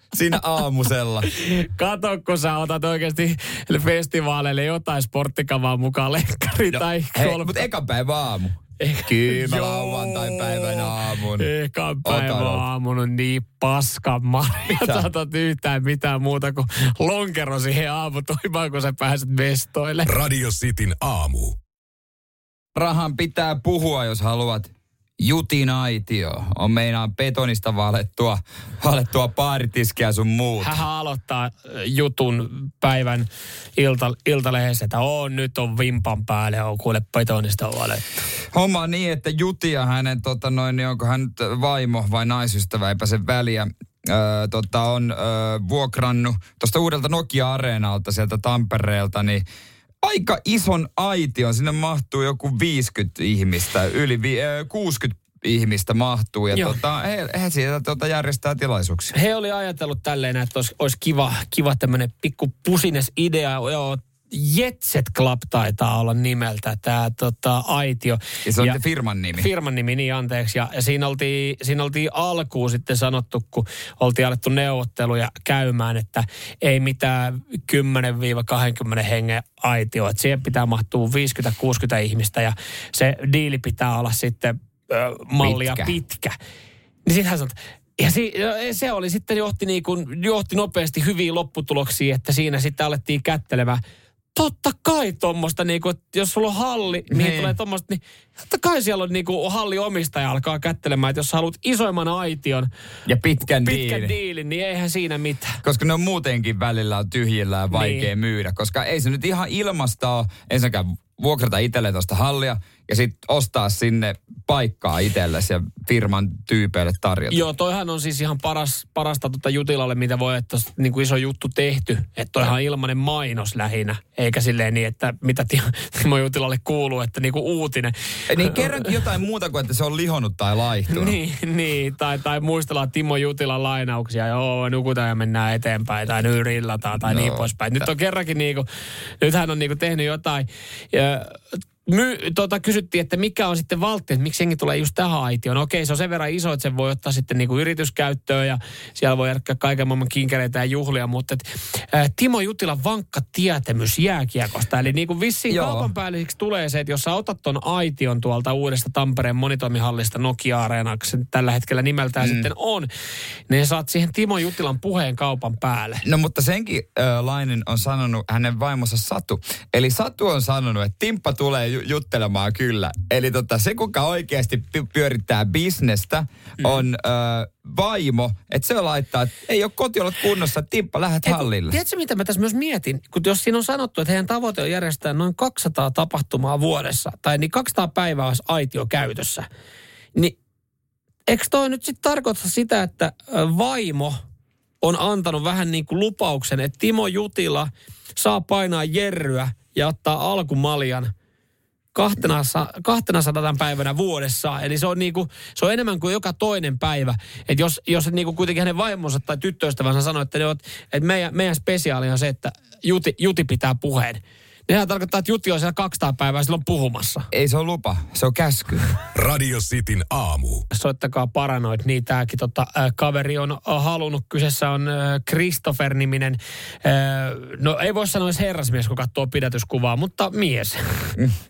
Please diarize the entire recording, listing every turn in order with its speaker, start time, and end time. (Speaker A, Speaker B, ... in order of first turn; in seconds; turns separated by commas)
Speaker A: 0.1-1.3, Speaker B: 1.2-7.7, Speaker A: 6.7-11.5, Speaker B: 8.8-20.1, Speaker A: 12.0-12.7, Speaker A: 14.8-15.1, Speaker C: 20.1-21.5, Speaker A: 22.7-30.8, Speaker B: 30.6-38.0, Speaker A: 38.5-49.4, Speaker A: 50.0-59.1, Speaker B: 56.5-56.8, Speaker B: 59.1-68.8, Speaker A: 68.5-69.5, Speaker B: 69.3-86.3, Speaker A: 85.4-86.0, Speaker B: 87.0-93.8, Speaker B: 94.3-102.7, Speaker A: 97.1-97.5, Speaker A: 103.0-104.1, Speaker B: 103.4-105.6, Speaker A: 105.6-117.5, Speaker B: 107.7-108.1, Speaker B: 117.3-129.0, Speaker A: 128.3-131.2, Speaker B: 130.9-138.6, Speaker A: 137.0-137.8, Speaker B: 139.2-162.9, Speaker A: 155.5-155.9, Speaker A: 162.2-162.5, Speaker B: 163.5-166.0, Speaker A: 166.0-181.8, Speaker B: 181.2-189.4, Speaker B: 191.3-194.2, Speaker B: 194.8-201.1, Speaker B: 201.9-217.3, Speaker A: 217.3-218.9, Speaker C: 219.1-220.6, Speaker B: 220.7-231.2